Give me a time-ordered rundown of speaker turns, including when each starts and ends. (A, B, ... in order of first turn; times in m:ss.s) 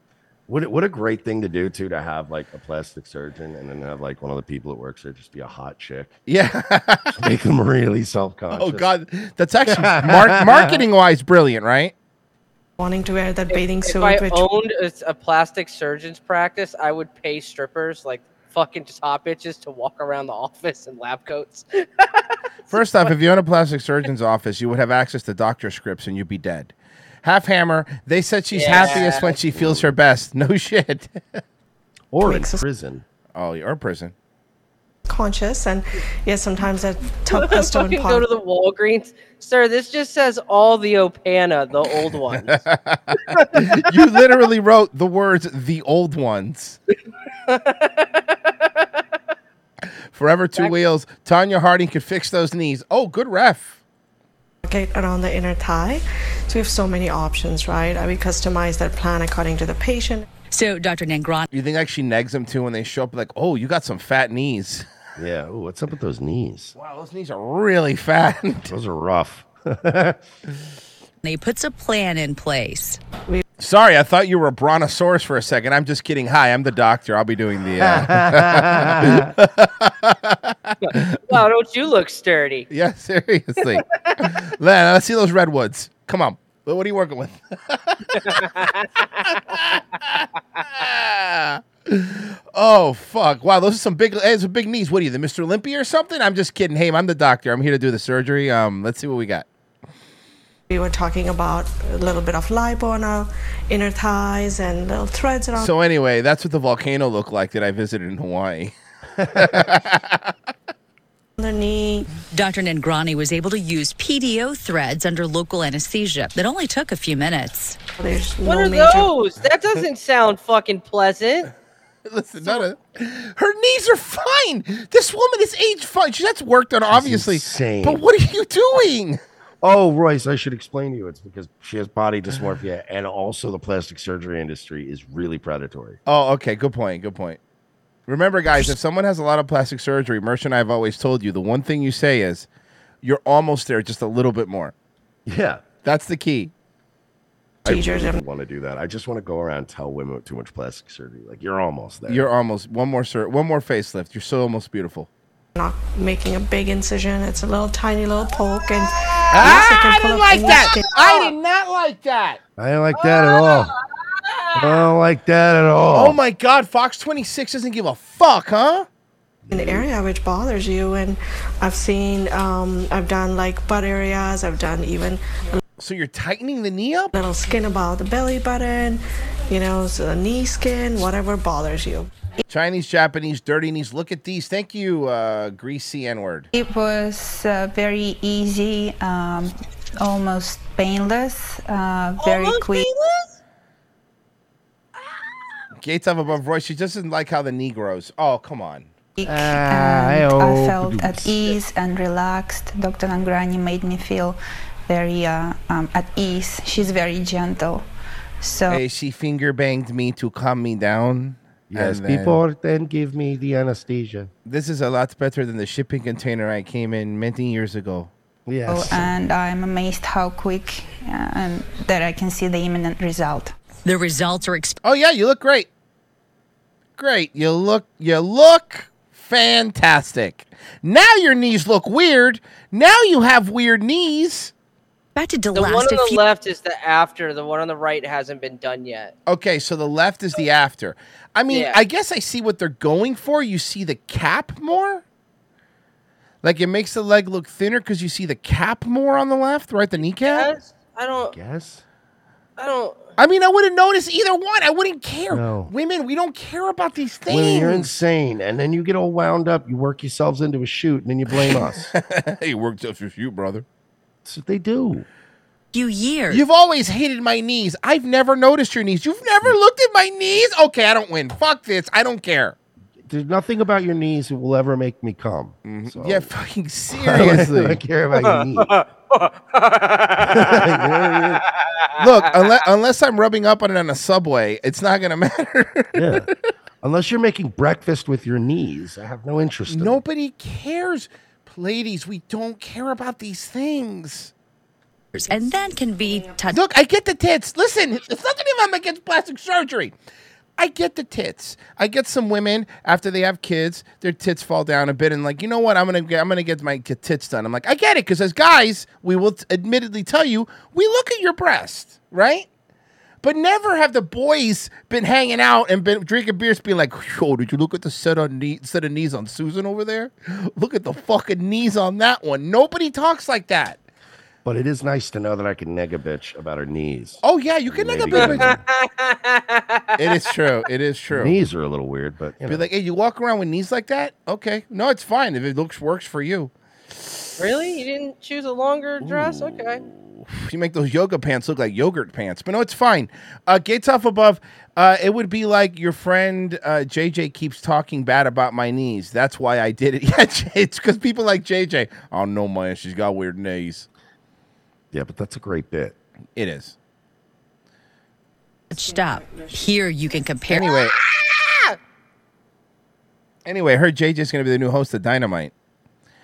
0:00.5-0:06.2 A
0:06.3-0:07.1 B
0:07.2-0:08.9 A
0:08.5-0:11.9 B
0:09.7-0:10.8 A
0:12.8-0:14.4 C
0:13.5-0:22.1 D
0:22.7-0:23.1 D
0:22.7-0:31.4 B
0:28.5-0:29.3 D
0:28.8-0:29.9 A
0:32.1-0:33.0 A
0:32.2-0:32.6 C
0:33.3-0:34.1 B
0:35.1-0:38.2 C
0:37.3-0:42.6 D
0:42.3-0:46.8 B
0:47.5-0:48.2 D
0:50.1-0:53.8 B
0:54.6-1:00.2 C
1:00.5-1:01.5 E
1:01.5-1:04.8 B
1:05.2-1:06.7 A
1:06.8-1:08.7 B
1:08.7-1:10.2 A
1:11.2-1:13.0 E
1:13.6-1:21.4 B
1:17.8-1:19.3 A
1:20.8-1:22.7 D
1:22.7-1:28.4 B
1:28.2-1:28.9 D
1:29.2-1:39.5 B
1:40.7-1:45.7 C
1:45.5-1:48.7 B
1:49.4-1:50.3 B
1:51.4-1:52.1 C
1:52.3-1:57.8 E
1:58.0-1:59.1 C
1:58.4-2:01.5 D
2:02.1-2:09.2 B
2:06.9-2:08.0 A
2:09.6-2:16.0 A
2:16.0-2:17.4 B
2:18.1-2:22.5 B
2:23.0-2:24.7 B
2:25.2-2:25.6 A
2:25.8-2:26.5 B
2:27.6-2:32.2 A
2:27.7-2:28.2 C
2:32.1-2:35.1 B
2:35.5-2:41.3 C
2:39.3-2:42.4 B
2:42.6-2:43.7 A
2:43.0-2:43.7 D
2:44.2-2:44.8 D
2:44.5-2:46.2 A
2:45.9-2:48.9 B
2:49.4-2:49.8 A
2:49.5-2:55.6 C
2:55.8-2:57.1 B
2:57.1-3:02.1 C
3:02.5-3:06.5 B
3:06.5-3:12.9 F
3:12.2-3:13.3 D
3:15.8-3:18.9 B
3:19.2-3:27.8 F
3:19.2-3:21.3 A
3:28.4-3:28.8 F
3:28.7-3:32.4 B
3:31.7-3:34.3 A
3:34.4-3:38.1 B
3:38.4-3:39.1 A
3:38.6-3:43.5 F
3:43.8-3:44.8 E
3:44.8-3:45.7 B
3:47.0-3:54.5 B
3:55.2-3:56.2 E
3:55.5-3:59.1 D
3:59.3-4:05.0 B
4:01.5-4:01.8 D
4:06.4-4:10.5 B
4:10.2-4:11.3 D
4:11.3-4:11.8 A
4:12.6-4:13.1 D
4:13.2-4:17.9 B
4:15.3-4:15.7 A
4:17.3-4:21.9 A
4:21.5-4:23.6 B
4:24.2-4:25.0 A
4:25.7-4:26.4 E
4:26.3-4:32.6 B
4:33.0-4:36.3 A
4:35.6-4:37.8 B
4:36.9-4:38.8 A
4:38.2-4:40.5 D
4:40.2-4:41.4 A
4:42.0-4:46.2 B
4:45.9-4:46.3 A
4:46.8-4:50.0 A
4:49.7-4:54.3 B
4:55.1-4:56.6 E
4:56.5-4:59.9 B
5:00.6-5:12.5 B
5:13.2-5:23.8 B
5:24.4-5:28.6 A
5:27.2-5:28.5 B
5:28.1-5:30.0 D
5:30.0-5:31.4 B
5:31.1-5:32.6 A
5:32.4-5:37.1 B
5:37.4-5:39.8 D
5:39.9-5:53.9 B
5:54.9-5:56.0 A
5:56.4-5:56.7 B
5:58.7-6:00.8 E
5:58.8-5:59.6 C
6:00.6-6:00.9 B
6:03.4-6:05.5 B